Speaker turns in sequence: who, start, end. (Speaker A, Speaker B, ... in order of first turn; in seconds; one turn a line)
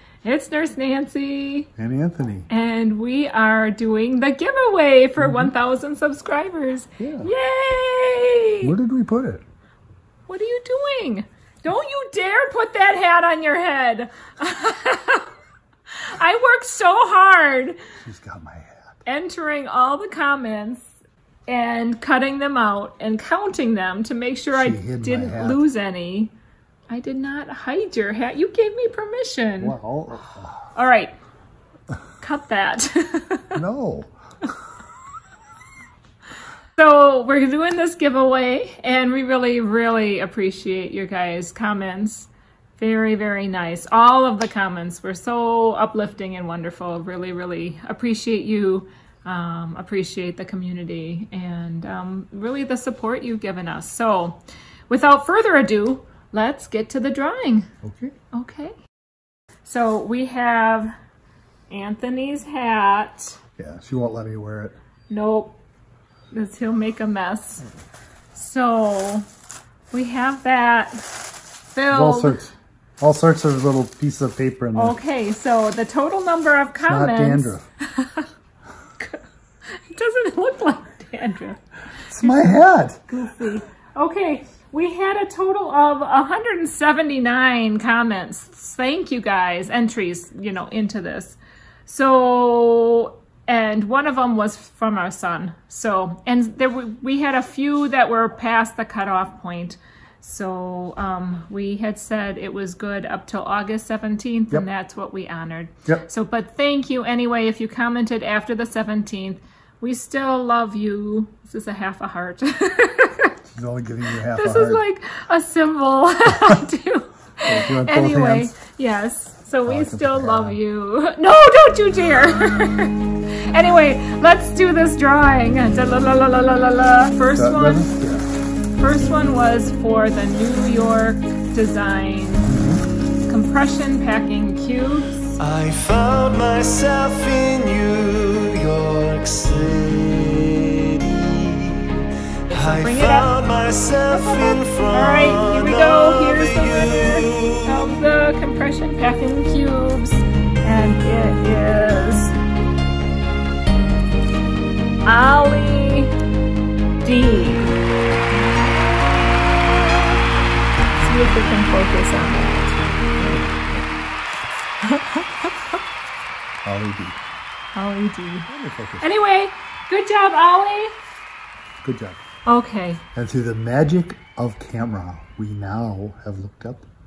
Speaker A: 0.2-1.7
Speaker B: 1.8-2.5
Speaker A: 2.5-8.7
Speaker B: 5.2-5.5
Speaker B: 7.0-7.3
Speaker B: 8.6-9.4
Speaker A: 10.3-15.3
Speaker A: 16.0-17.8
Speaker B: 18.0-19.0
Speaker A: 19.1-20.9
Speaker A: 21.5-26.3
Speaker B: 24.5-25.6
Speaker A: 26.9-29.8
Speaker B: 29.6-30.7
Speaker A: 30.8-31.1
Speaker A: 32.2-33.6
Speaker B: 33.5-34.1
Speaker A: 36.8-57.7
Speaker B: 57.8-58.1
Speaker A: 58.3-58.8
Speaker A: 59.6-60.9
Speaker A: 61.7-63.4
Speaker B: 63.6-64.8
Speaker A: 65.1-65.6
Speaker A: 66.3-67.7
Speaker A: 68.3-69.3
Speaker A: 69.9-71.1
Speaker A: 71.7-72.4
Speaker B: 71.9-75.0
Speaker A: 74.7-78.3
Speaker B: 76.9-77.7
Speaker A: 79.9-81.6
Speaker A: 82.1-113.3
Speaker B: 82.1-83.0
Speaker B: 113.5-114.8
Speaker A: 114.3-127.9
Speaker B: 117.4-118.5
Speaker B: 119.7-120.6
Speaker B: 127.4-128.3
Speaker A: 128.8-132.6
Speaker B: 132.5-132.8
Speaker A: 133.3-135.4
Speaker C: 135.4-147.8
Speaker A: 142.5-152.3
Speaker A: 155.1-156.1
Speaker A: 157.0-157.8
Speaker A: 161.0-162.8
Speaker B: 163.2-163.9
Speaker A: 164.8-165.7
Speaker B: 166.7-167.2
Speaker A: 167.8-168.5
Speaker B: 168.5-169.1
Speaker A: 169.0-170.9
Speaker B: 171.8-172.2
Speaker A: 172.5-173.0
Speaker B: 173.2-176.9